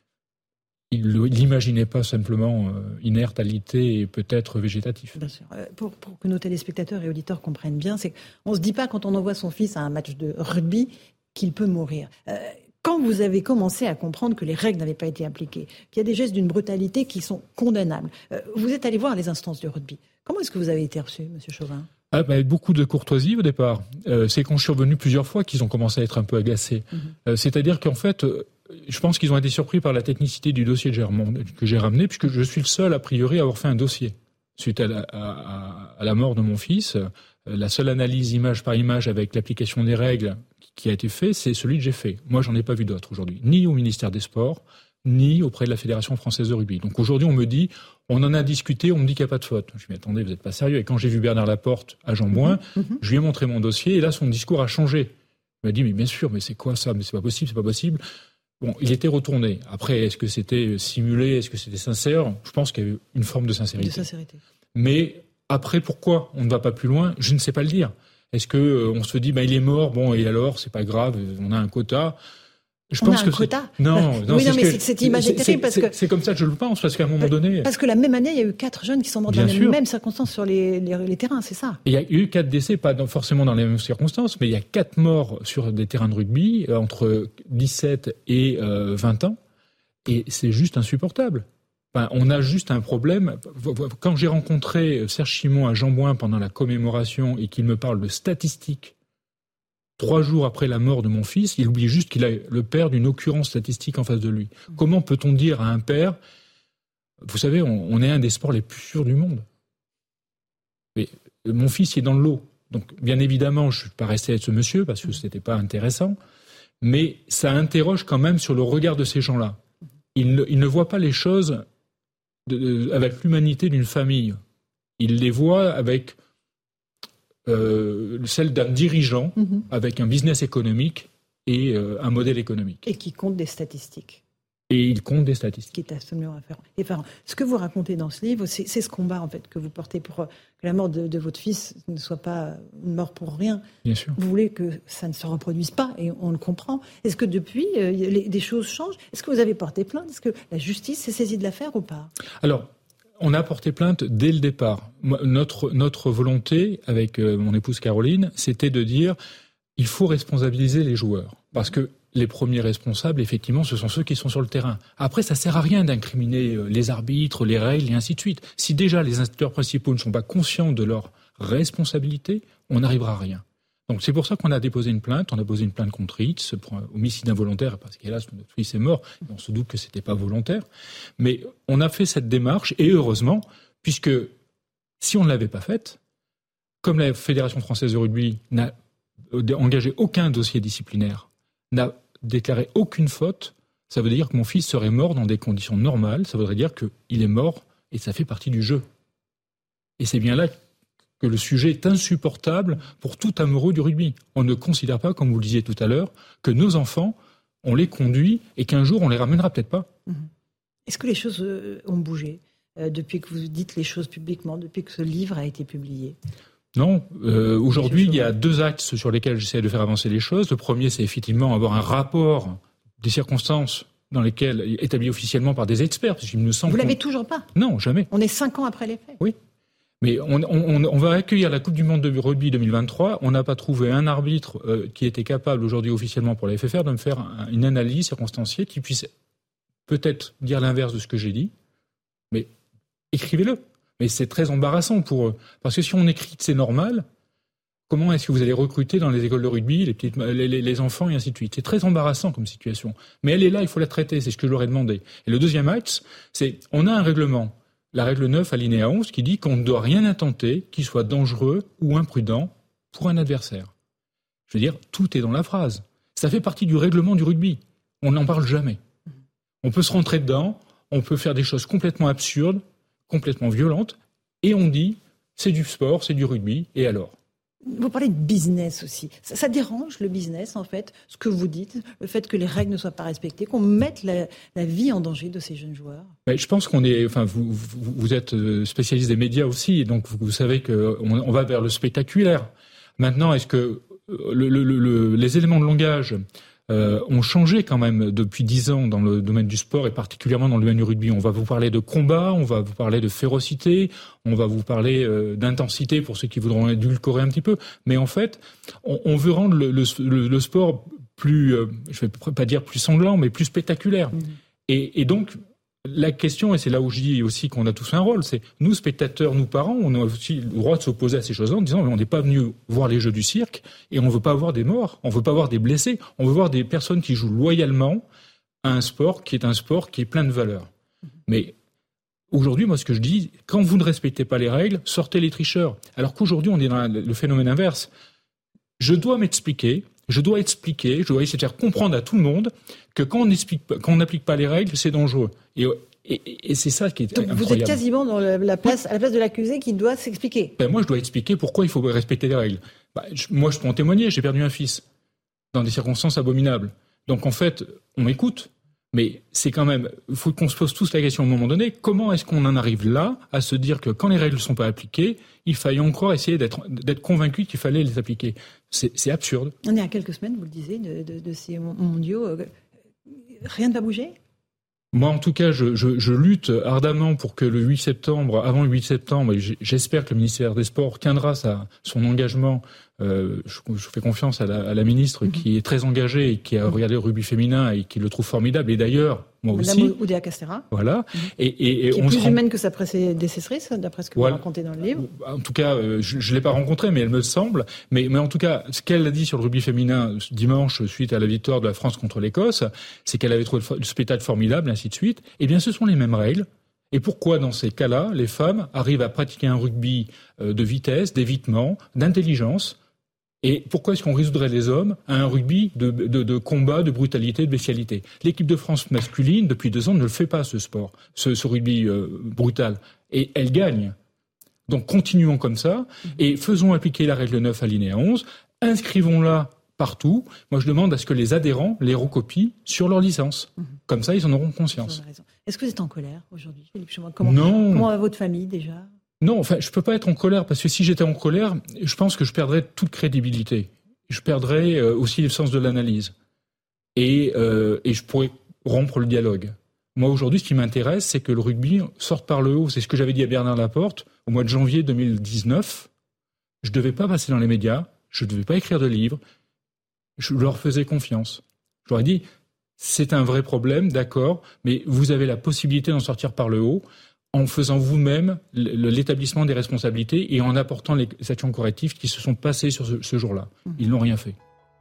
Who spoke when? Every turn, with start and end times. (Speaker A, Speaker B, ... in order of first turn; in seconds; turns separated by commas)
Speaker A: 0.9-5.1, Speaker B: 5.2-21.9, Speaker A: 22.1-58.0, Speaker A: 58.6-64.0, Speaker B: 63.8-64.4, Speaker A: 64.7-72.2, Speaker A: 72.9-77.7, Speaker B: 73.0-75.9, Speaker B: 77.2-81.8, Speaker A: 79.3-79.8, Speaker A: 81.8-89.4, Speaker A: 90.1-98.9, Speaker A: 100.0-106.2, Speaker A: 107.2-109.4, Speaker A: 110.9-116.2, Speaker A: 116.8-119.6, Speaker A: 120.1-121.6, Speaker A: 122.5-124.4, Speaker A: 125.0-126.1, Speaker A: 127.5-132.8, Speaker B: 129.4-129.6, Speaker B: 132.8-134.2, Speaker A: 134.7-135.7, Speaker B: 135.7-143.6, Speaker A: 143.8-144.2, Speaker B: 144.2-152.1, Speaker A: 152.4-159.2, Speaker A: 159.8-180.6, Speaker A: 181.2-184.3, Speaker A: 185.0-186.0, Speaker A: 186.8-188.7, Speaker A: 189.3-198.8, Speaker A: 200.0-200.5, Speaker A: 201.2-209.9, Speaker B: 210.9-216.2, Speaker A: 216.8-227.0, Speaker B: 217.7-218.3, Speaker B: 226.7-227.5, Speaker A: 227.5-228.1, Speaker B: 228.1-229.2, Speaker A: 230.0-239.1, Speaker A: 239.9-241.5, Speaker A: 243.1-247.1, Speaker A: 247.9-263.7, Speaker A: 264.5-268.8, Speaker A: 269.6-277.1, Speaker B: 277.7-286.1, Speaker A: 286.3-314.2, Speaker A: 314.7-328.0, Speaker A: 328.6-330.7, Speaker A: 331.3-331.5, Speaker A: 332.3-337.9, Speaker A: 338.8-347.8, Speaker B: 347.1-350.5, Speaker A: 350.6-354.8, Speaker A: 355.5-369.5, Speaker B: 369.6-372.5, Speaker B: 373.4-374.1, Speaker A: 374.9-389.9, Speaker B: 389.5-390.6, Speaker A: 390.7-392.4, Speaker B: 391.9-395.1, Speaker A: 394.1-394.4, Speaker A: 394.9-412.8, Speaker A: 413.4-423.9, Speaker A: 424.7-435.0, Speaker B: 434.8-438.9, Speaker A: 437.2-437.9, Speaker A: 439.2-446.1, Speaker A: 446.9-455.9, Speaker A: 456.6-459.2, Speaker A: 460.2-462.2, Speaker A: 462.8-474.3